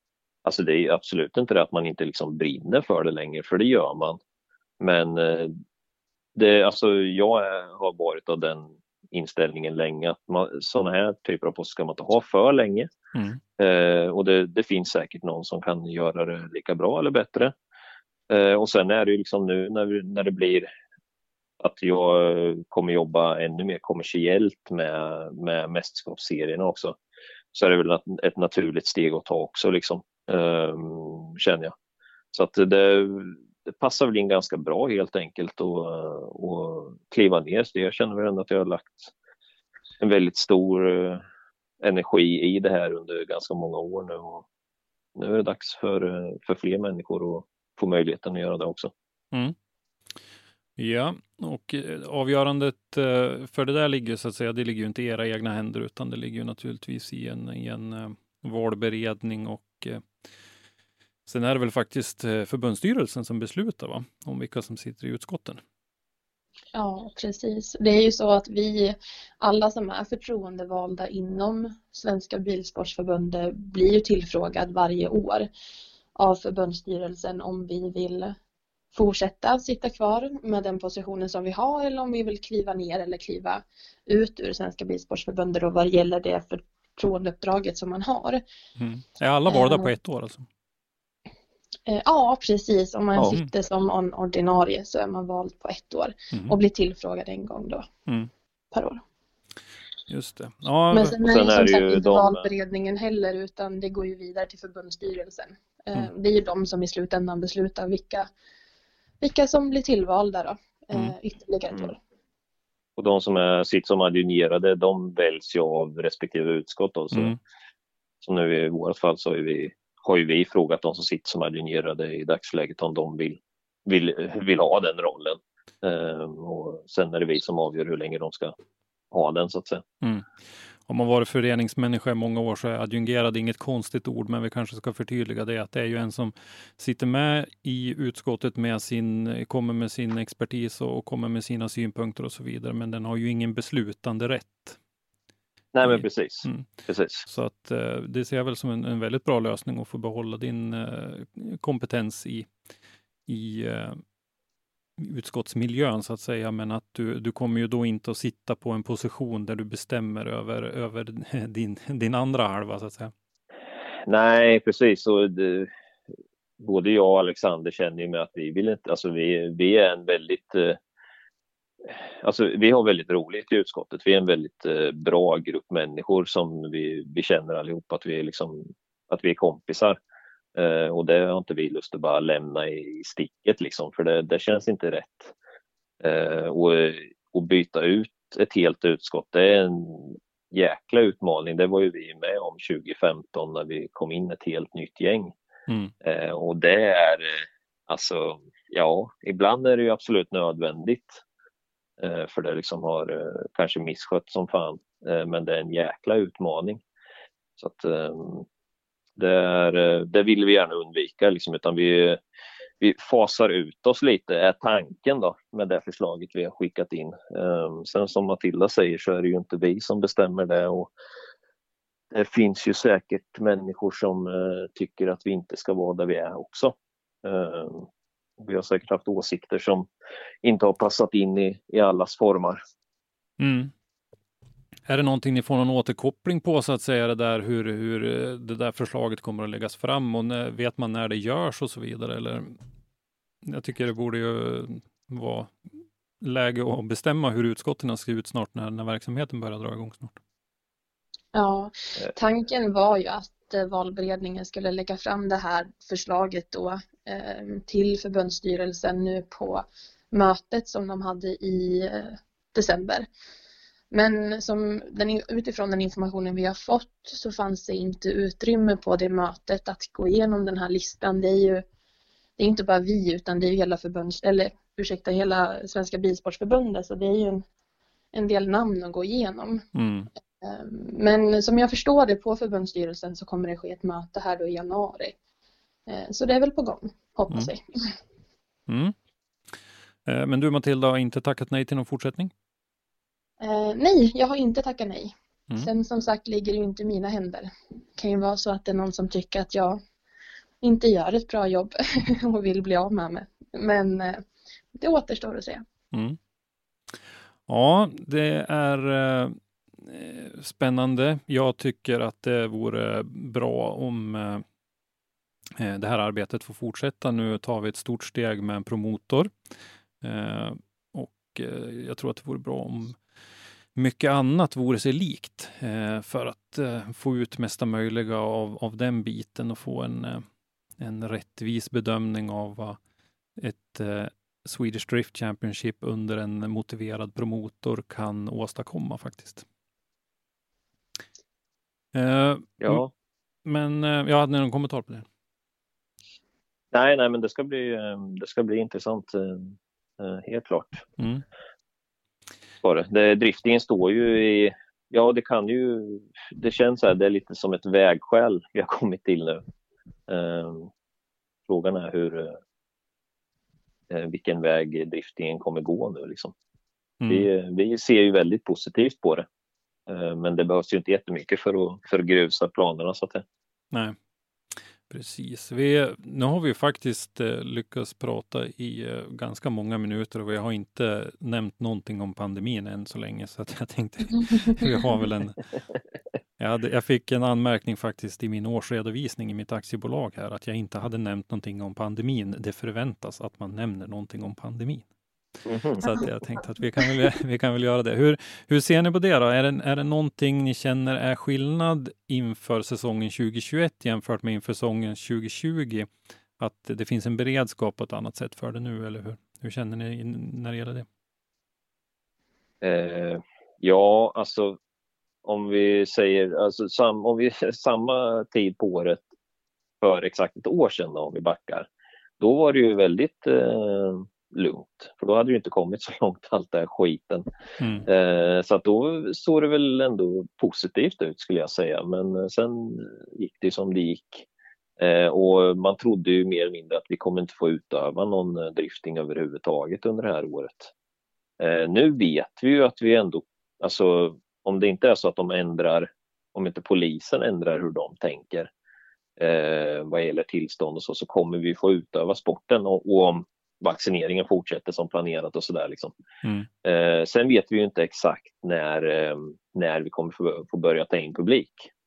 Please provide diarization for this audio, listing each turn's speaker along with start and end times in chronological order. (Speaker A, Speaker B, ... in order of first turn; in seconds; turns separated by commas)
Speaker A: 0.5-4.2, Speaker A: 4.8-5.5, Speaker A: 6.4-12.9, Speaker B: 13.1-13.4, Speaker A: 13.6-17.5, Speaker A: 18.3-20.7, Speaker A: 21.6-27.0, Speaker A: 27.5-31.7, Speaker A: 32.3-39.1, Speaker A: 40.0-41.2, Speaker A: 41.8-44.5, Speaker A: 45.2-48.9, Speaker B: 50.8-60.3, Speaker B: 61.3-65.6, Speaker C: 66.7-75.5, Speaker C: 76.2-78.3, Speaker C: 78.9-88.4, Speaker B: 88.8-90.5, Speaker C: 89.5-89.9, Speaker C: 91.9-97.9, Speaker B: 93.2-93.5, Speaker C: 98.7-99.0, Speaker B: 100.1-101.2, Speaker C: 100.9-108.3, Speaker A: 101.2-102.5, Speaker C: 109.2-112.0, Speaker A: 113.0-117.3, Speaker A: 118.2-128.5, Speaker A: 129.1-129.8, Speaker B: 130.0-144.8, Speaker A: 145.7-147.2, Speaker B: 145.8-146.7, Speaker B: 147.2-152.5, Speaker B: 153.3-154.0, Speaker B: 155.0-163.1, Speaker A: 164.1-165.7, Speaker A: 166.6-170.8, Speaker A: 172.2-180.0, Speaker A: 180.6-185.3, Speaker A: 186.0-195.3, Speaker A: 196.0-201.2, Speaker A: 202.0-206.8, Speaker A: 207.6-208.4, Speaker A: 209.2-212.2, Speaker A: 212.8-220.9, Speaker A: 222.1-227.9, Speaker A: 228.4-229.9, Speaker A: 230.4-232.6, Speaker B: 233.4-233.7, Speaker B: 234.9-242.6, Speaker B: 243.4-245.5, Speaker B: 246.2-250.2, Speaker C: 251.3-263.1, Speaker C: 263.9-271.6, Speaker C: 272.4-277.4, Speaker C: 278.1-279.6, Speaker B: 279.7-280.1, Speaker C: 280.4-285.2, Speaker C: 285.9-287.9, Speaker B: 288.7-288.9, Speaker B: 289.5-292.3, Speaker C: 293.4-299.8, Speaker C: 300.6-305.6, Speaker B: 305.9-306.2, Speaker B: 306.9-314.4, Speaker B: 315.6-319.3, Speaker B: 320.0-323.0, Speaker B: 323.8-330.2, Speaker B: 330.8-332.8, Speaker B: 333.4-339.4, Speaker B: 341.9-342.8, Speaker A: 342.6-342.9, Speaker B: 343.4-345.1, Speaker A: 346.7-350.9, Speaker B: 351.0-351.2, Speaker A: 352.6-359.4, Speaker A: 360.1-360.7, Speaker A: 361.5-362.4, Speaker A: 363.9-366.3, Speaker B: 367.0-367.3, Speaker A: 367.1-369.3, Speaker A: 369.9-373.2, Speaker B: 374.9-385.6, Speaker B: 386.4-394.9, Speaker A: 395.5-396.1, Speaker B: 395.8-410.9, Speaker A: 412.6-414.6, Speaker A: 415.2-419.1, Speaker A: 419.8-421.7, Speaker A: 422.2-427.3, Speaker B: 427.6-427.9, Speaker A: 427.9-434.3, Speaker A: 434.8-440.7, Speaker A: 441.4-448.5, Speaker A: 449.2-455.9, Speaker A: 456.6-461.7